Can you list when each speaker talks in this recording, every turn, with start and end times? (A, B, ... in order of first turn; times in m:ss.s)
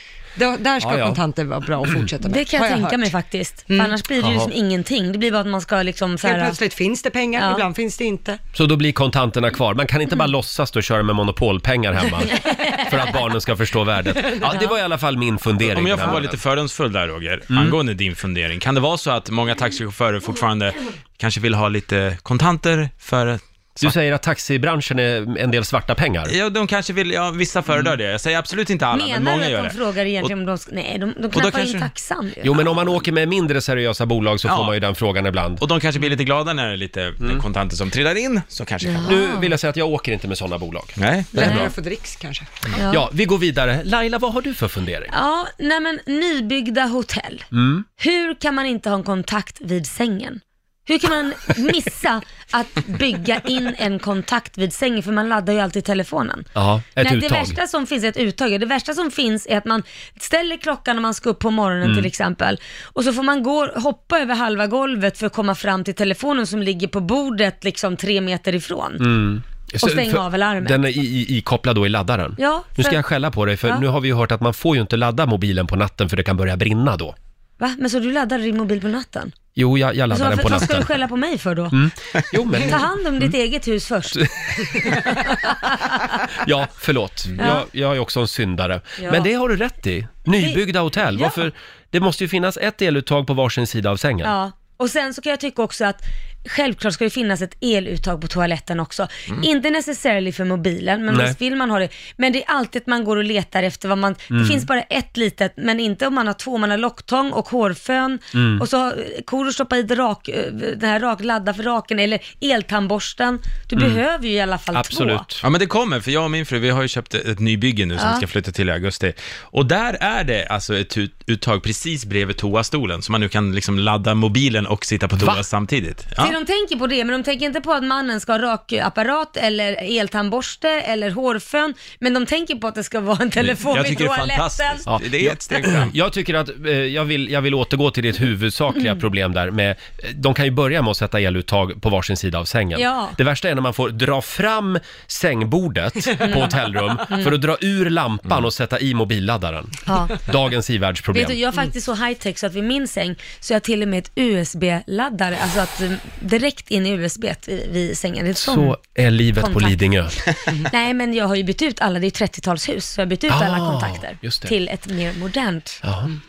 0:00.4-0:03.1 A
0:00.8-0:01.2 B
0:02.2-0:06.6 C
0:04.2-0:04.5 B
0:06.2-0:08.4 A
0:07.4-0:07.6 C
0:08.5-0:16.4 B
0:12.3-0:12.8 C
0:15.6-0:23.9 D
0:17.5-0:17.8 B
0:23.8-0:26.3 B
0:26.2-0:30.3 D
0:28.9-0:32.8 C
0:31.3-0:31.9 D
0:32.4-0:35.6 B
0:34.4-0:34.8 D
0:35.6-0:39.1 D
0:38.8-0:39.5 C
0:39.0-0:41.7 B
0:41.0-0:41.5 D
0:41.3-0:42.5 A
0:42.8-0:43.0 C
0:42.9-0:45.1 B
0:45.1-0:47.5 C
0:47.5-0:47.8 B
0:48.0-0:56.5 C
0:56.6-0:57.6 B
0:57.0-1:09.1 C
1:01.8-1:02.1 B
1:09.0-1:17.1 B
1:09.8-1:10.8 C
1:12.4-1:13.0 C
1:17.6-1:19.3 C
1:19.6-1:20.9 B
1:20.1-1:21.8 C
1:21.7-1:23.3 B
1:22.5-1:24.9 C
1:24.2-1:25.1 B
1:26.4-1:34.3 B
1:27.4-1:27.6 C
1:29.0-1:29.3 C
1:34.2-1:55.2 C
1:41.1-1:41.4 B
1:44.3-1:44.7 B
1:48.3-1:48.6 B
1:53.8-1:54.0 B
1:54.7-1:55.4 B
1:55.4-2:06.4 D
1:58.0-1:58.2 C
2:06.2-2:14.9 C
2:13.4-2:15.9 D
2:14.9-2:31.4 B
2:22.8-2:23.2 C
2:26.2-2:26.5 C
2:27.1-2:27.3 C
2:29.8-2:30.2 C
2:31.1-2:38.8 C
2:38.4-2:40.2 B
2:39.4-2:39.8 C
2:40.6-2:45.8 C
2:43.3-2:44.5 B
2:45.8-2:46.1 B